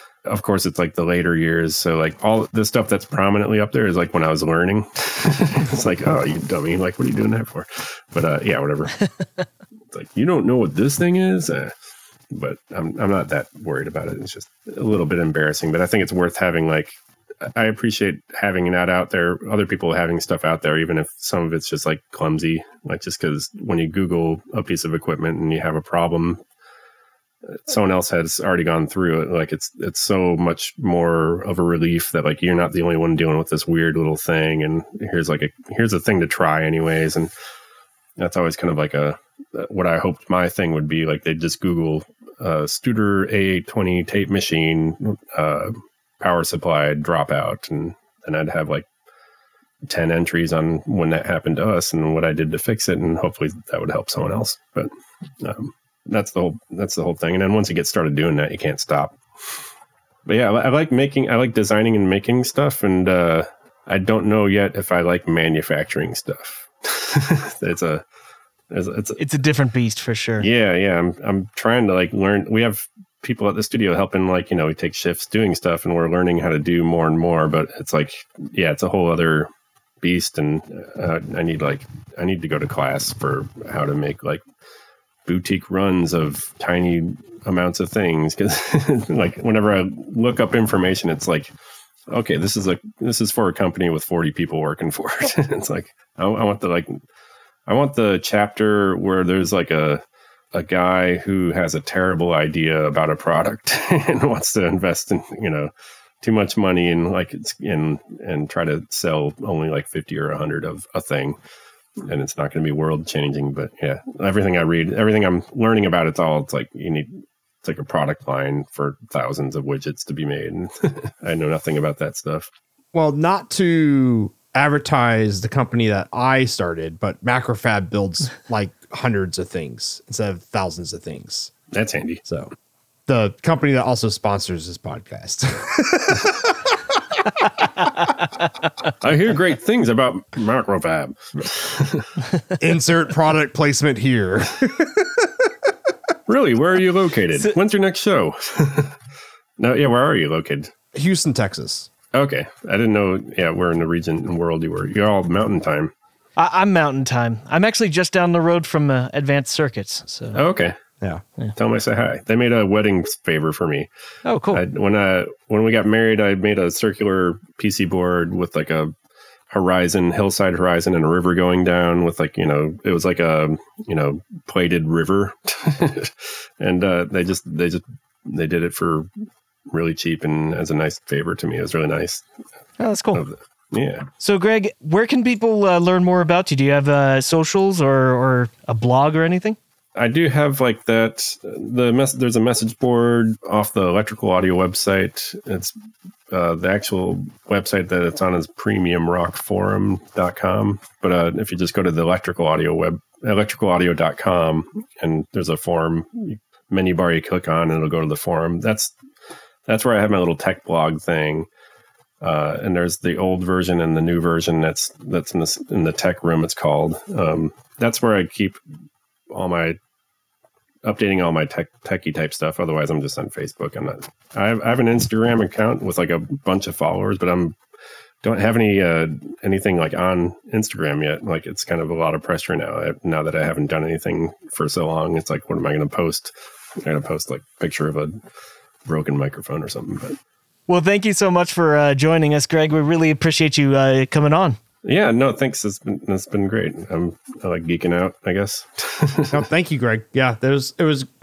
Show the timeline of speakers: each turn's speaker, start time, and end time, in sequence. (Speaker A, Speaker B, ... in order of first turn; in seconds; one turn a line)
Speaker A: 0.2-9.0
Speaker A: 9.9-11.7
Speaker A: 12.3-26.4
Speaker A: 27.5-37.3
Speaker A: 38.2-48.9
Speaker A: 49.9-54.9
Speaker A: 55.4-59.2
Speaker A: 60.3-68.0
Speaker A: 68.7-69.2
Speaker B: 69.2-70.5
Speaker A: 70.4-79.5
Speaker A: 80.0-84.4
Speaker A: 85.3-91.5
Speaker A: 92.1-97.0
Speaker A: 97.7-100.0
Speaker A: 100.5-105.7
Speaker A: 106.2-111.4
Speaker A: 112.0-117.1
Speaker A: 117.6-122.5
Speaker C: 122.9-131.5
Speaker A: 131.7-132.2
Speaker C: 133.1-137.8
Speaker A: 139.0-142.1
Speaker C: 142.6-145.5
Speaker A: 146.3-149.0
Speaker A: 149.6-150.7
Speaker C: 150.9-151.9
Speaker A: 152.1-155.9
Speaker B: 156.4-160.4
Speaker A: 160.3-160.7
Speaker A: 161.6-163.9
Speaker B: 164.2-164.6
Speaker A: 164.5-168.9
Speaker A: 169.5-179.1
Speaker A: 179.7-182.2
Speaker B: 182.8-183.2
Speaker A: 183.1-184.1
Speaker B: 184.2-189.6
Speaker A: 190.0-195.7
Speaker A: 196.3-208.9
Speaker A: 209.7-211.5
Speaker A: 212.2-218.6
Speaker A: 219.3-219.8
Speaker A: 220.8-227.6
Speaker A: 228.2-238.2
Speaker A: 238.8-240.2
Speaker B: 240.7-244.6
Speaker A: 244.8-249.4
Speaker C: 249.3-251.1